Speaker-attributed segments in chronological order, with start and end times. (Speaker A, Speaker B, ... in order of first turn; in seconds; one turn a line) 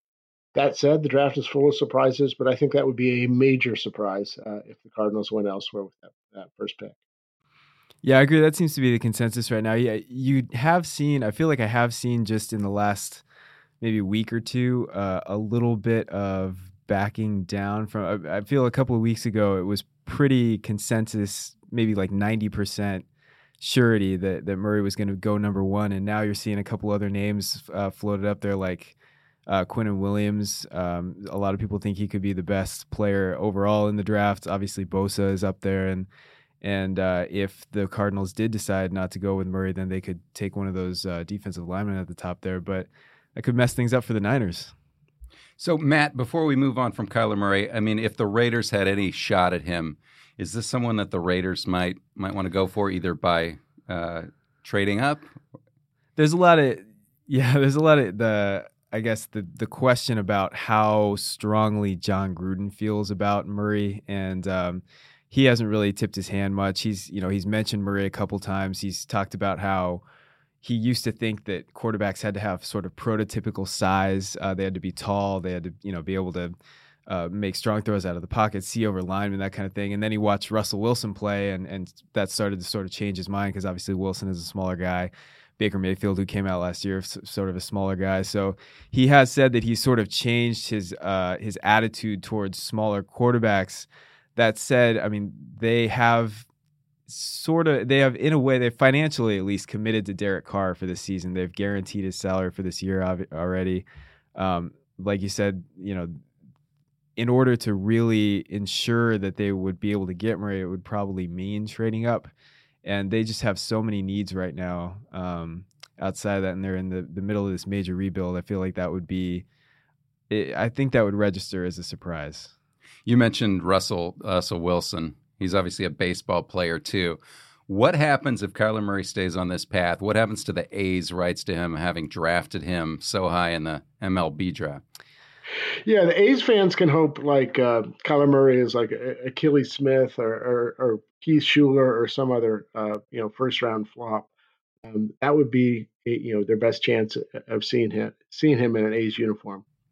Speaker A: 0.5-7.0
Speaker B: 8.0-13.2
Speaker B: 13.8-23.1
Speaker B: 23.6-36.1
Speaker B: 36.6-44.8
Speaker C: 45.6-55.4
Speaker B: 56.2-70.0
Speaker B: 70.6-76.6
Speaker B: 77.1-96.5
Speaker B: 97.1-106.2
Speaker B: 107.2-112.3
Speaker B: 112.8-119.5
Speaker B: 120.3-122.5
Speaker C: 123.1-134.8
Speaker A: 135.8-144.3
Speaker A: 144.8-149.6